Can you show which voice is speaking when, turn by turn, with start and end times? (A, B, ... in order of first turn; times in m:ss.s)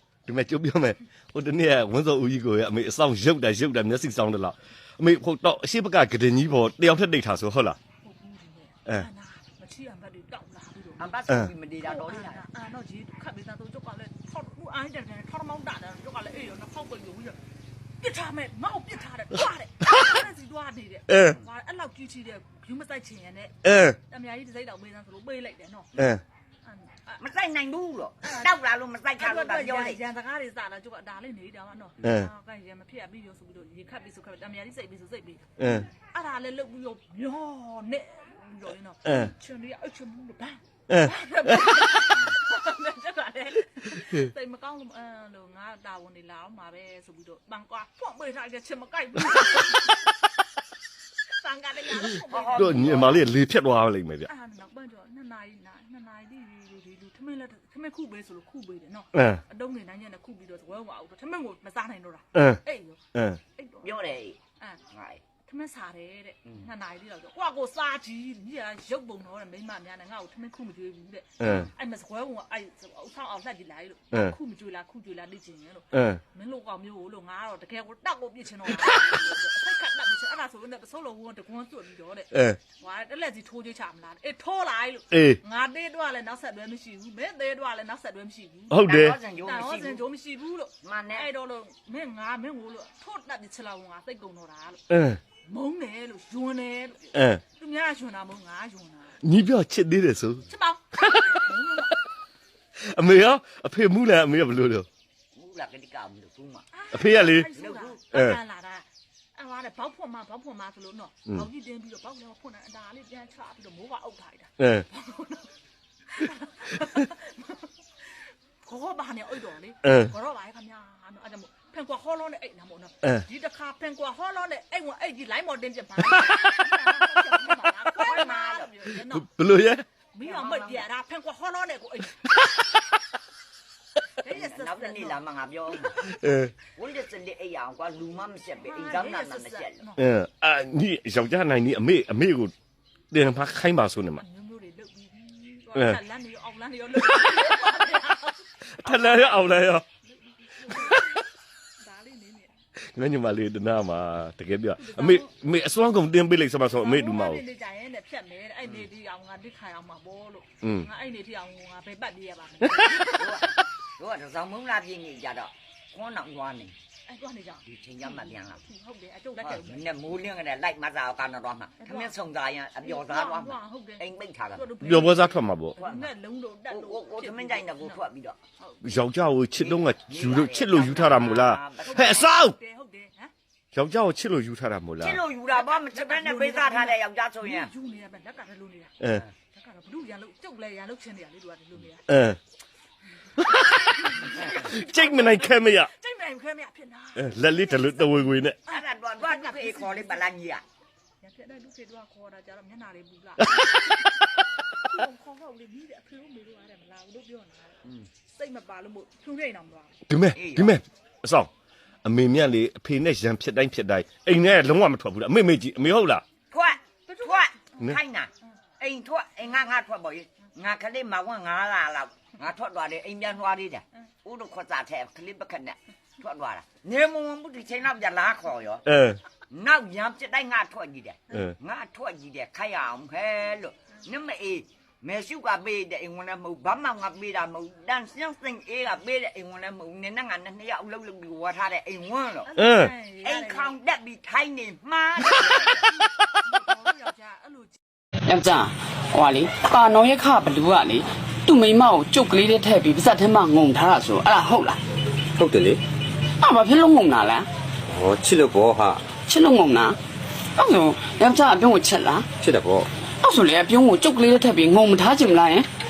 0:00.3-0:07.8 A
0:08.0-0:11.1 B
0:11.0-0:12.5 C
0:11.8-0:17.4 B
0:18.0-0:25.9 B
0:21.1-0:21.4 A
0:23.6-0:24.0 A
0:26.0-0:26.2 A
0:26.6-0:27.2 B
0:27.2-0:30.0 C
0:28.2-0:28.6 B
0:29.2-0:50.1 B
0:32.0-0:32.3 A
0:35.6-0:35.9 A
0:39.0-0:39.3 A
0:40.9-0:41.8 A
0:51.4-0:53.1 B
0:52.3-0:53.3 C
0:52.6-0:54.3 A
0:54.2-1:04.8 B
0:59.1-0:59.4 A
1:02.3-1:02.6 A
1:03.1-1:03.4 A
1:03.8-1:04.4 C
1:04.9-1:05.2 C
1:05.4-1:34.8 B
1:11.4-1:11.7 A
1:11.4-1:11.7 C
1:15.9-1:16.2 A
1:22.3-1:22.6 A
1:25.1-1:25.4 A
1:28.7-1:29.2 A
1:28.8-1:30.0 C
1:30.8-1:31.3 C
1:34.9-1:35.2 A
1:35.4-1:39.2 B
1:37.1-1:37.4 A
1:39.2-1:40.5 A
1:40.5-1:42.0 B
1:41.1-1:41.4 A
1:42.8-1:44.9 A
1:45.3-1:46.7 C
1:46.7-1:55.5 B
1:46.9-1:47.5 A
1:47.2-1:48.0 C
1:48.1-1:48.4 A
1:54.6-1:54.9 A
1:56.1-2:09.3 B
1:59.8-2:00.1 A
2:06.1-2:06.4 A
2:07.9-2:08.7 C
2:09.0-2:09.9 A
2:10.1-2:12.2 B
2:10.2-2:10.9 C
2:14.2-2:15.2 B
2:14.3-2:16.1 C
2:16.0-2:16.5 A
2:16.8-2:19.9 C
2:18.6-2:20.0 B
2:20.0-2:22.5 A
2:23.1-2:24.2 A
2:24.2-2:31.2 B
2:27.0-2:27.5 A
2:28.6-2:29.8 A
2:30.6-2:31.2 A
2:31.8-2:32.5 B
2:32.9-2:37.4 A
2:34.8-2:35.3 B
2:36.8-2:43.5 B
2:40.6-2:40.9 A
2:43.2-2:46.8 C
2:47.1-2:49.9 B
2:47.7-2:48.6 C
2:49.4-2:54.7 C
2:51.8-2:52.2 B
2:52.8-2:58.1 B
2:54.8-2:55.8 A
2:55.8-2:56.1 C
2:56.7-2:58.4 C
2:58.6-2:59.0 B
2:58.8-3:02.6 A
2:59.6-3:02.3 C
3:01.8-3:03.3 B
3:03.7-3:05.2 A
3:05.0-3:07.7 C
3:05.5-3:09.0 B
3:09.5-3:12.0 B
3:12.1-3:12.4 A
3:13.4-3:20.3 B
3:14.2-3:15.9 A
3:17.2-3:18.6 A
3:18.7-3:20.6 C
3:21.2-3:30.0 B
3:23.4-3:23.8 A
3:30.1-3:31.5 A
3:30.3-3:30.8 C
3:32.0-3:36.2 A
3:36.5-3:48.9 C
3:37.1-3:37.9 B
3:48.9-3:49.2 A
3:49.5-4:02.5 C
4:02.5-4:03.8 B
4:02.6-4:02.9 A
4:03.2-4:05.9 C
4:05.8-4:07.8 B
4:08.3-4:14.8 D
4:15.4-4:15.8 E
4:16.4-4:17.5 D
4:17.9-4:19.2 E
4:19.2-4:20.0 D
4:20.6-4:22.3 D
4:22.4-4:22.9 E
4:23.2-4:25.7 D